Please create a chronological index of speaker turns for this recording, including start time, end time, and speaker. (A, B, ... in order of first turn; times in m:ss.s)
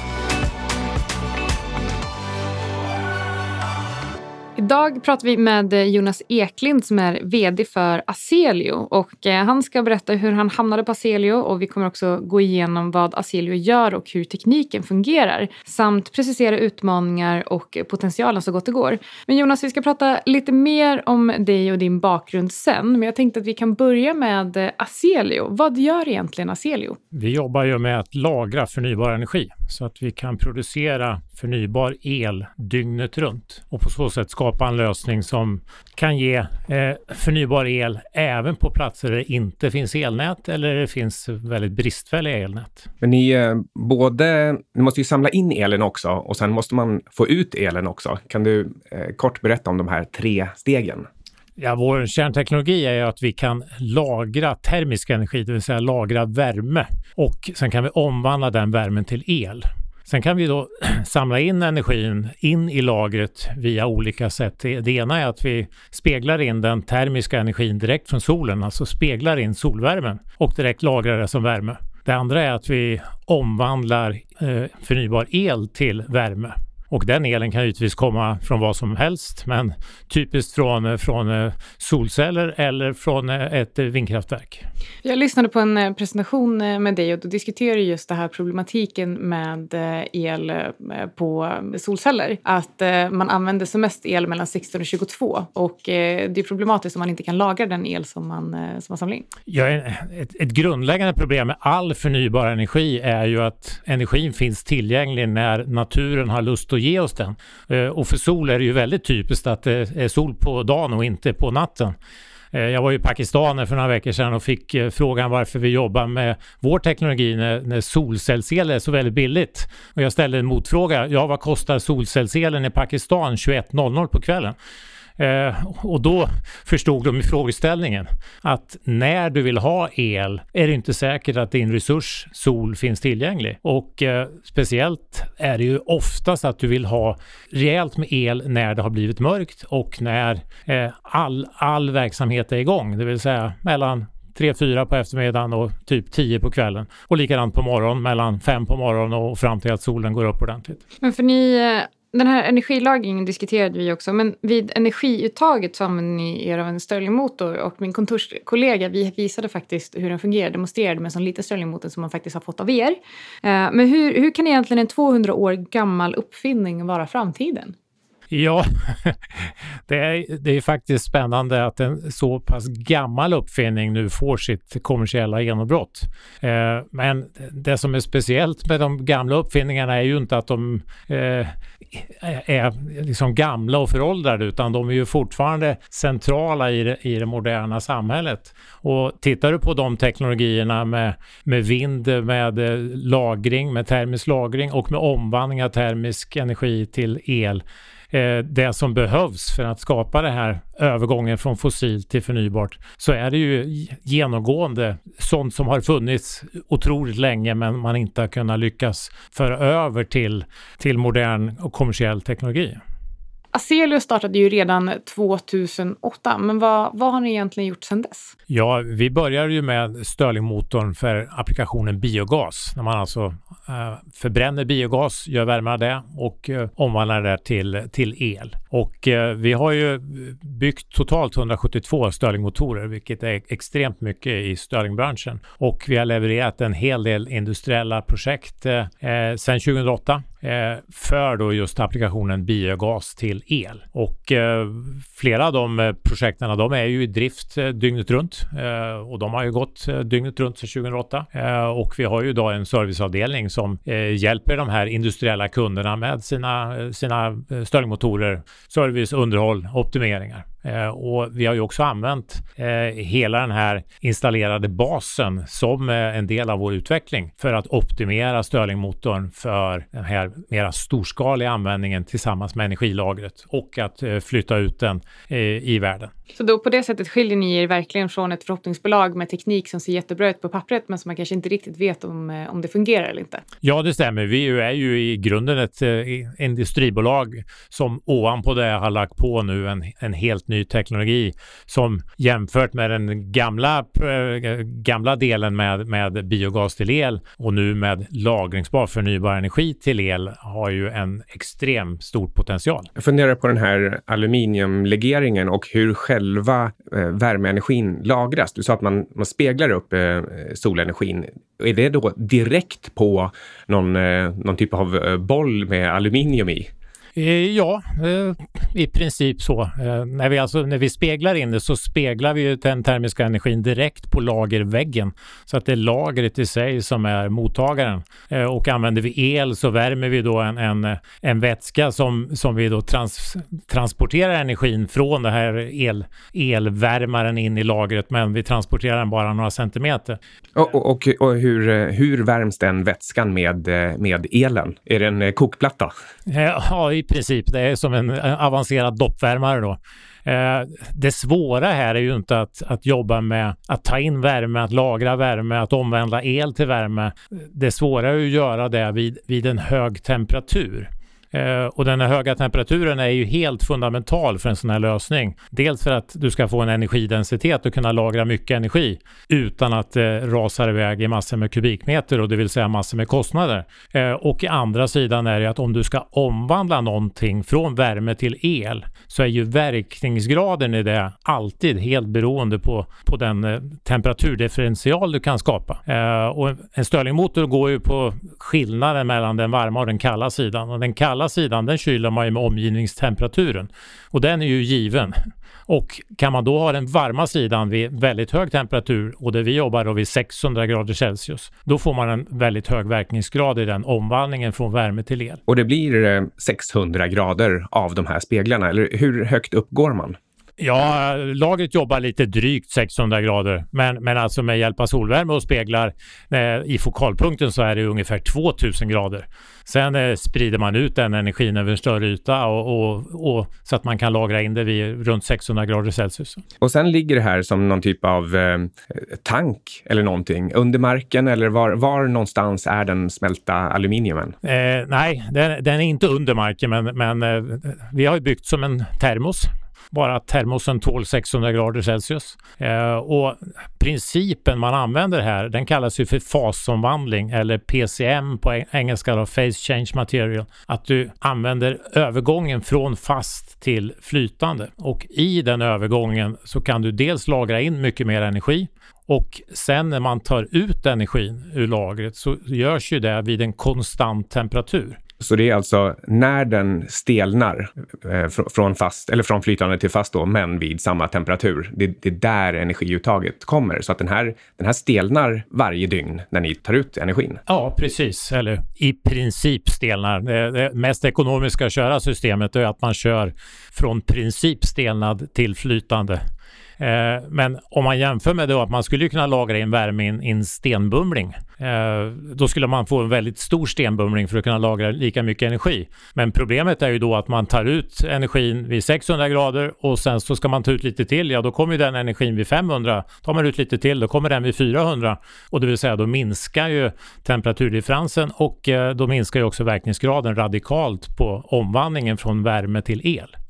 0:04.6-0:27.0 A
0:27.1-0:42.9 B
0:43.0-0:51.1 C
0:51.6-1:24.6 B
1:25.0-1:39.3 A
1:39.5-1:52.0 B
1:52.5-2:04.6 B
2:05.2-2:30.8 B
2:31.0-2:47.8 A
2:48.3-3:32.8 B
3:33.5-3:38.3 A
3:38.5-4:36.1 B
4:36.4-4:43.4 A
4:43.6-5:02.9 B
5:03.0-5:16.7 C
5:17.2-5:40.2 B
5:40.6-5:45.9 C
5:46.3-6:35.2 B
6:35.7-6:45.4 B
6:45.5-6:50.2 C
6:50.6-7:06.4 B
7:06.6-7:14.4 C
7:14.4-7:45.0 B
7:45.2-7:57.4 C
7:57.5-8:06.2 B
8:06.8-8:33.3 B